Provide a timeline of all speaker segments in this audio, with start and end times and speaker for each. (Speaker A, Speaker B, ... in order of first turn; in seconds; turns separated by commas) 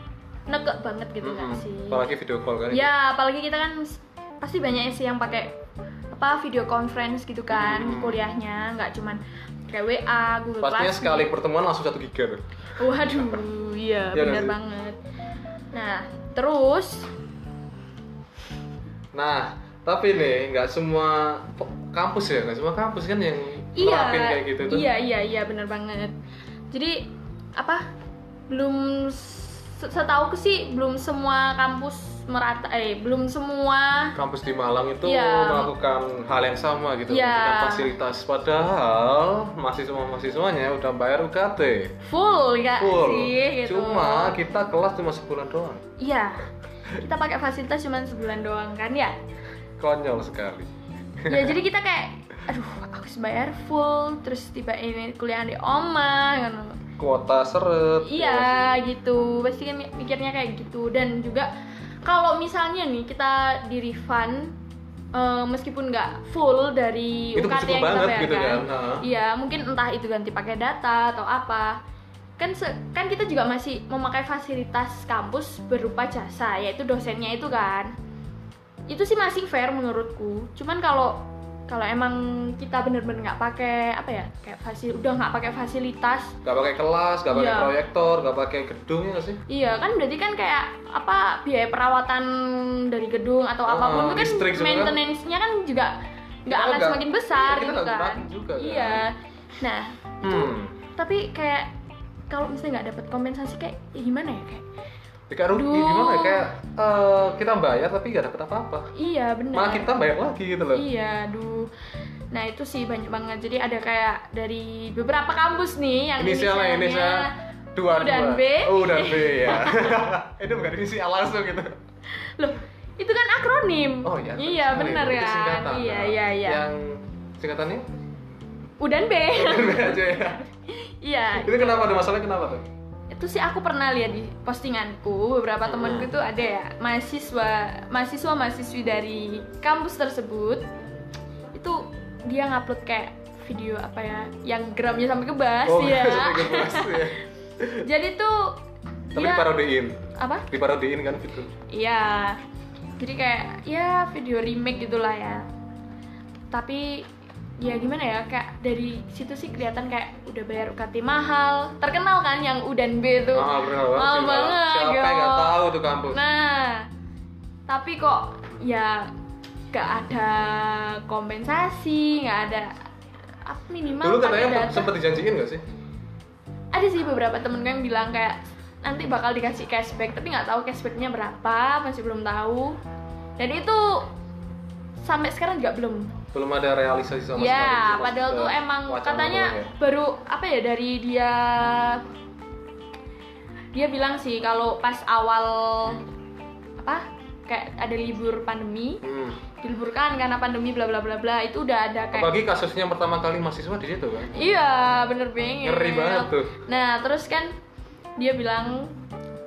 Speaker A: 0.5-2.0, Speaker B: 1.2-2.9, Speaker A: 2.7-5.5, Speaker A: 6.1-11.3, Speaker B: 7.5-8.2, Speaker B: 10.6-12.4, Speaker A: 12.8-15.0, Speaker B: 14.1-14.6, Speaker A: 15.7-17.1, Speaker B: 19.1-24.9, Speaker A: 23.8-26.1, Speaker A: 26.7-27.9, Speaker A: 28.5-34.2, Speaker B: 34.1-42.0, Speaker A: 35.0-35.7, Speaker A: 37.1-37.9, Speaker A: 42.1-44.4, Speaker B: 42.8-45.8, Speaker A: 46.0-49.1, Speaker B: 49.8-50.7, Speaker B: 51.2-51.5, Speaker A: 51.3-56.8, Speaker B: 57.0-58.8, Speaker A: 58.0-61.5, Speaker A: 62.0-64.5, Speaker A: 65.1-71.8, Speaker B: 67.3-69.0, Speaker A: 72.4-77.9, Speaker A: 78.9-86.4, Speaker B: 86.4-89.4, Speaker A: 87.3-87.7, Speaker A: 89.5-101.7, Speaker B: 93.7-95.0, Speaker B: 96.5-99.1, Speaker B: 100.2-100.8, Speaker A: 102.3-104.6, Speaker B: 105.3-108.9, Speaker A: 105.5-106.4, Speaker A: 108.9-109.9, Speaker B: 109.5-110.8, Speaker A: 110.7-111.7, Speaker A: 112.3-117.3, Speaker B: 116.2-121.8, Speaker A: 118.0-120.0, Speaker A: 122.1-126.6, Speaker B: 124.0-127.8, Speaker A: 128.8-131.9, Speaker B: 129.3-130.4, Speaker B: 131.3-132.6, Speaker A: 133.1-140.7, Speaker B: 135.6-136.1, Speaker A: 141.5-147.1, Speaker B: 145.7-147.9, Speaker A: 147.8-148.6, Speaker B: 149.1-151.5, Speaker A: 149.1-149.6, Speaker A: 150.2-150.4, Speaker A: 151.7-152.4, Speaker A: 153.0-155.4, Speaker A: 156.5-157.1, Speaker A: 157.6-166.9, Speaker B: 163.3-166.2, Speaker A: 167.7-169.1, Speaker A: 169.7-172.8, Speaker A: 173.4-174.9, Speaker B: 174.0-175.6, Speaker A: 176.7-182.8, Speaker A: 183.4-184.1, Speaker A: 185.0-186.2, Speaker B: 186.3-189.7, Speaker A: 187.4-192.0, Speaker A: 193.7-196.0, Speaker A: 196.8-199.0, Speaker B: 199.0-199.4, Speaker A: 199.6-202.3, Speaker B: 202.1-204.3, Speaker A: 204.3-207.5, Speaker B: 205.6-206.5, Speaker A: 208.2-208.9